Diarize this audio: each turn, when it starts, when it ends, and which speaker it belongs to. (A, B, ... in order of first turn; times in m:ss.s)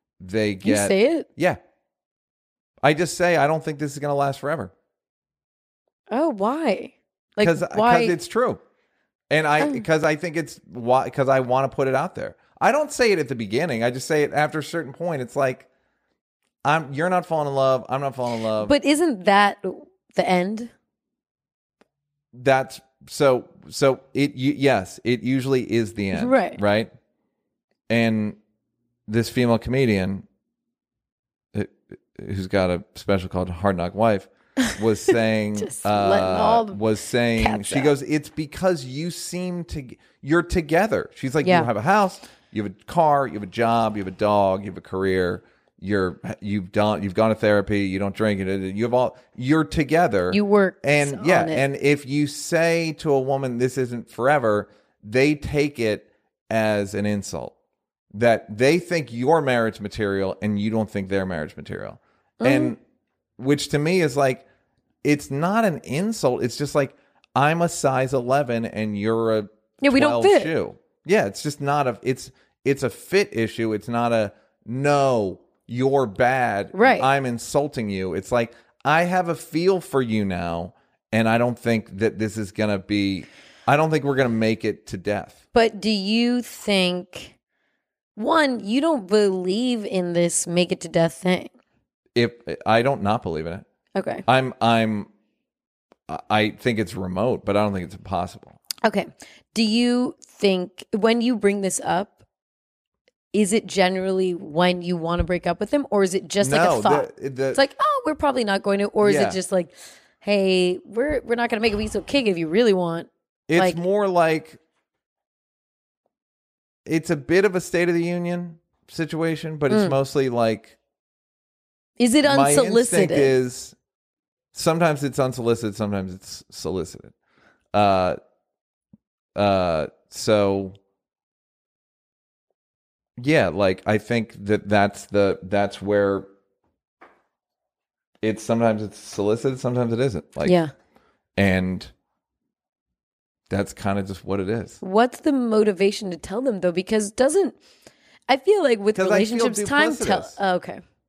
0:00.2-0:01.6 A
0:00.6-0:01.3 B
0:02.8-0:04.7 A
0:06.1-0:08.2 B
0:07.4-0:08.6 A
0:09.3-0:15.7 A
0:09.6-0:09.8 B
0:16.6-0:18.7 A
0:18.6-0:20.7 B
0:22.3-0:26.9 A
0:26.1-0:26.6 B
0:27.9-0:28.4 A
0:29.1-0:30.2 A
0:31.5-0:57.5 A
0:35.6-0:36.8 B
0:37.4-0:37.9 B
0:41.4-0:41.7 B
0:50.3-0:51.6 B
0:58.1-1:02.8 A
1:02.4-1:02.7 B
1:03.4-1:04.4 A
1:05.0-1:25.4 A
1:09.8-1:10.5 B
1:16.7-1:17.1 B
1:25.5-1:27.3 B
1:28.2-1:31.5 B
1:32.1-1:33.6 A
1:33.9-1:34.2 B
1:34.2-1:35.1 A
1:36.1-1:38.6 A
1:38.8-1:42.2 B
1:43.3-1:53.8 B
1:46.4-1:47.6 A
1:49.0-1:49.4 A
1:53.5-1:54.6 A
1:56.8-2:00.8 A
1:59.7-2:00.0 B
2:02.0-2:03.3 B
2:02.2-2:03.8 A
2:04.5-2:07.1 A
2:07.7-2:08.2 A
2:09.4-2:10.8 A
2:13.2-2:16.3 A
2:18.2-2:20.6 A
2:20.4-2:20.7 B
2:21.4-2:21.9 A
2:23.5-2:24.8 A
2:24.8-2:27.6 B
2:28.3-2:30.8 B
2:28.9-2:30.4 A